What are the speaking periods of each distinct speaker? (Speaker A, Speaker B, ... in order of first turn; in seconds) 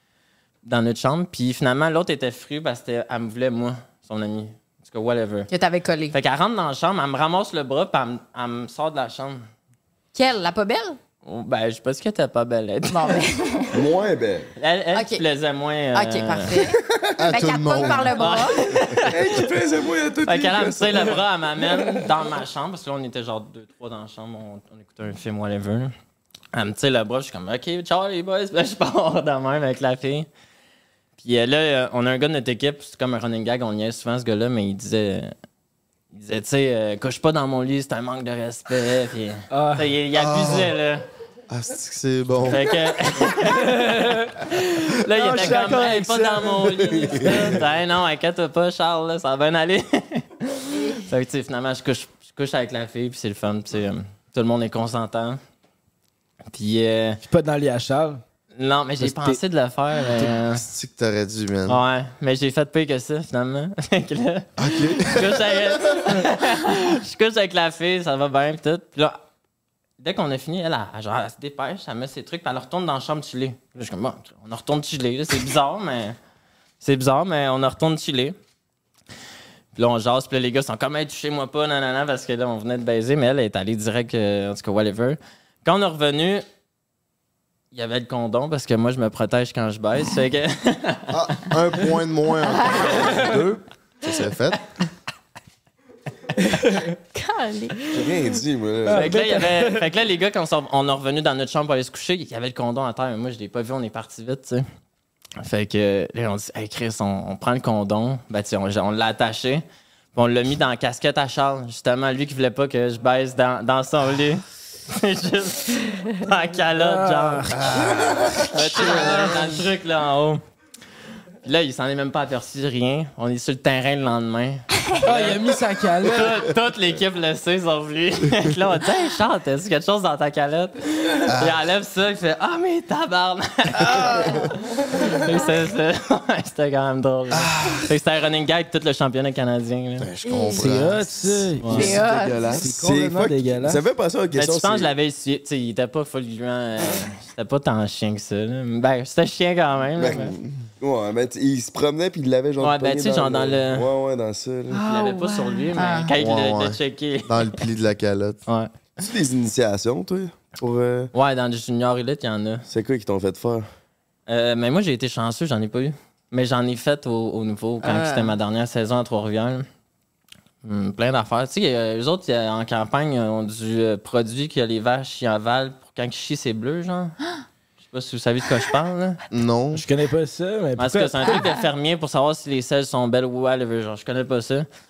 Speaker A: 0.6-5.5, 6.1-9.4, 11.2-13.3, 14.6-16.6, 18.1-19.5, 20.2-25.9, 26.5-30.3, 31.2-35.3, 36.1-41.0, 42.5-55.4, 56.5-57.2, 58.6-60.6, 61.7-69.2, 70.0-76.2, 76.8-78.4, 79.8-86.5, 87.7-91.6, 98.9-104.6, 105.4-109.6, 110.2-120.4, 121.4-140.1, 141.6-141.9, 144.3-150.3, 152.6-153.9, 154.8-157.6, 158.5-158.7, 161.1-162.7, 164.3-169.7, 170.6-177.2, 177.8-179.2, 180.8-184.7
Speaker B: 5.5-6.2, 10.1-11.0, 12.9-13.8, 14.9-15.2, 15.9-18.7, 50.7-51.1, 97.1-97.8, 134.1-134.5, 140.2-140.6, 141.7-142.5, 154.7-156.1, 167.8-168.3
Speaker C: 13.7-14.5, 16.8-17.3, 19.0-21.2, 97.9-99.1, 142.7-144.9, 150.0-154.8, 159.0-161.1, 162.7-163.7
Speaker D: 17.2-18.4, 40.1-40.8, 41.5-42.7, 47.0-47.4, 60.2-61.8, 64.6-65.7, 91.1-94.6, 117.5-119.5, 131.3-131.6, 137.3-137.9, 140.0-142.8, 156.2-158.4, 179.3-179.9
Speaker E: 39.5-39.9, 43.4-44.4, 45.1-47.6, 57.2-58.2, 59.0-59.4, 96.4-97.0, 98.9-99.8, 116.8-118.1, 118.8-119.6, 125.0-126.5, 140.6-142.0, 142.5-143.8, 179.7-181.5